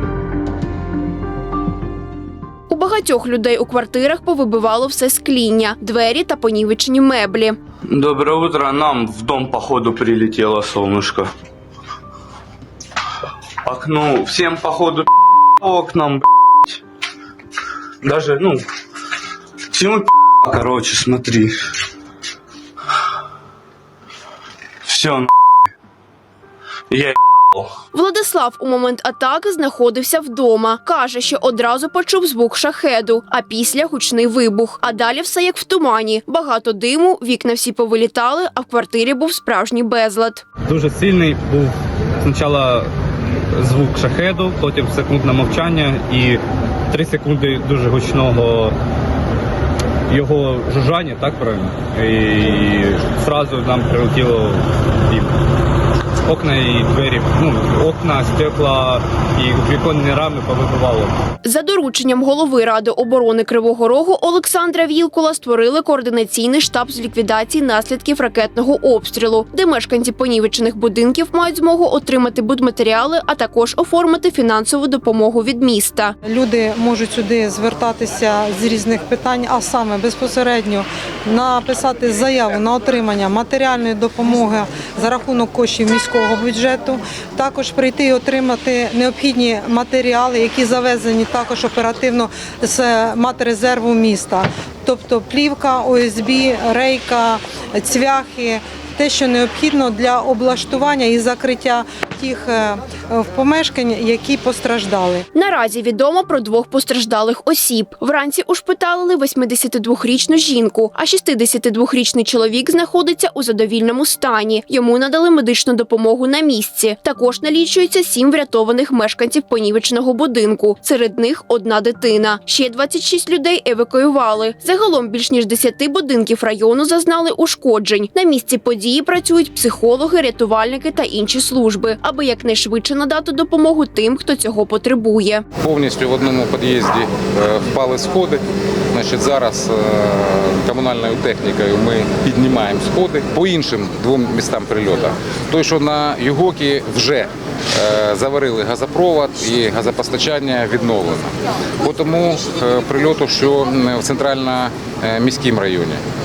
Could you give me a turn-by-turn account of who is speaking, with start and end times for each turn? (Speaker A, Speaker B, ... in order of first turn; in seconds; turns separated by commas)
Speaker A: 2.7-7.6, Speaker B: 7.9-11.3, Speaker B: 13.6-16.7, Speaker B: 18.0-18.6, Speaker B: 19.7-21.5, Speaker B: 24.9-25.3, Speaker B: 26.9-27.7, Speaker A: 27.9-40.4, Speaker C: 40.6-42.9, Speaker C: 43.6-48.8, Speaker C: 50.1-55.4, Speaker C: 56.2-61.1, Speaker A: 61.4-76.2, Speaker D: 76.2-105.2, Speaker A: 105.3-135.4, Speaker E: 135.6-156.0